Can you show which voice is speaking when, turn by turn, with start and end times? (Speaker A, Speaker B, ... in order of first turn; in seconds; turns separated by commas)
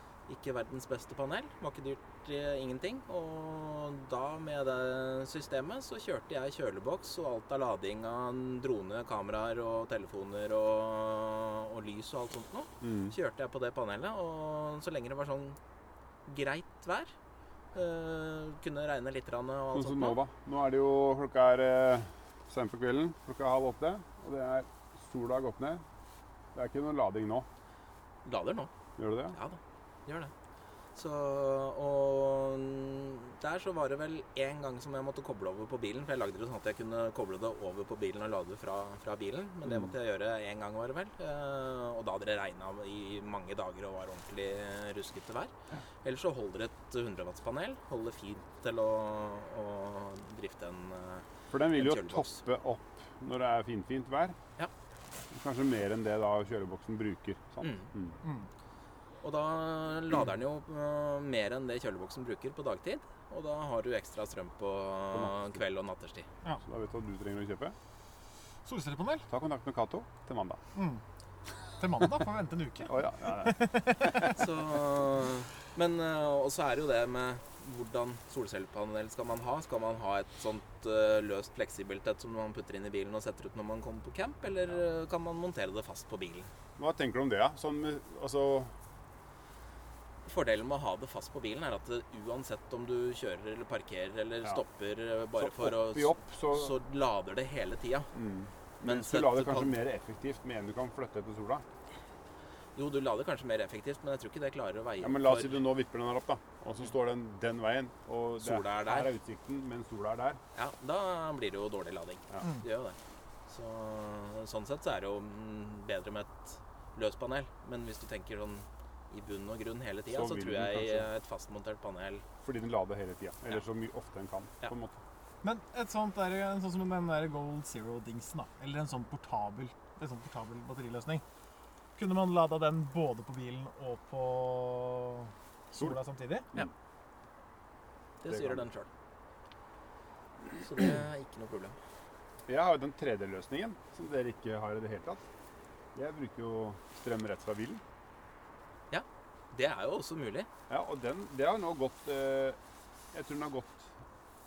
Speaker A: 0.3-15.6, Speaker B: 12.8-13.1, Speaker A: 16.2-17.1, Speaker A: 17.7-20.2, Speaker B: 19.7-25.8, Speaker B: 26.5-27.5, Speaker A: 28.2-28.7, Speaker B: 29.0-29.4, Speaker A: 29.3-30.3, Speaker A: 30.9-52.4, Speaker B: 51.5-54.4, Speaker B: 55.3-58.2, Speaker A: 57.6-57.9, Speaker C: 58.2-58.5, Speaker A: 59.2-66.3, Speaker B: 65.1-65.5, Speaker B: 66.6-67.8, Speaker C: 68.7-69.2, Speaker B: 69.3-70.6, Speaker C: 70.7-71.0, Speaker C: 71.8-74.3, Speaker B: 72.9-74.3, Speaker A: 74.3-86.5, Speaker B: 86.8-88.7, Speaker A: 90.2-98.1, Speaker B: 95.4-96.7, Speaker B: 98.1-101.6, Speaker A: 98.8-99.8, Speaker A: 102.7-105.6, Speaker B: 105.0-110.4, Speaker A: 108.4-109.1, Speaker A: 110.5-113.0, Speaker A: 113.5-122.2, Speaker B: 120.1-121.1, Speaker B: 122.4-125.0, Speaker C: 125.4-131.2, Speaker C: 131.9-136.5, Speaker A: 138.2-138.9, Speaker B: 138.3-138.6, Speaker A: 140.6-141.8, Speaker B: 142.5-145.2, Speaker B: 145.9-147.8, Speaker A: 148.9-150.5, Speaker B: 150.7-152.6, Speaker B: 153.1-153.9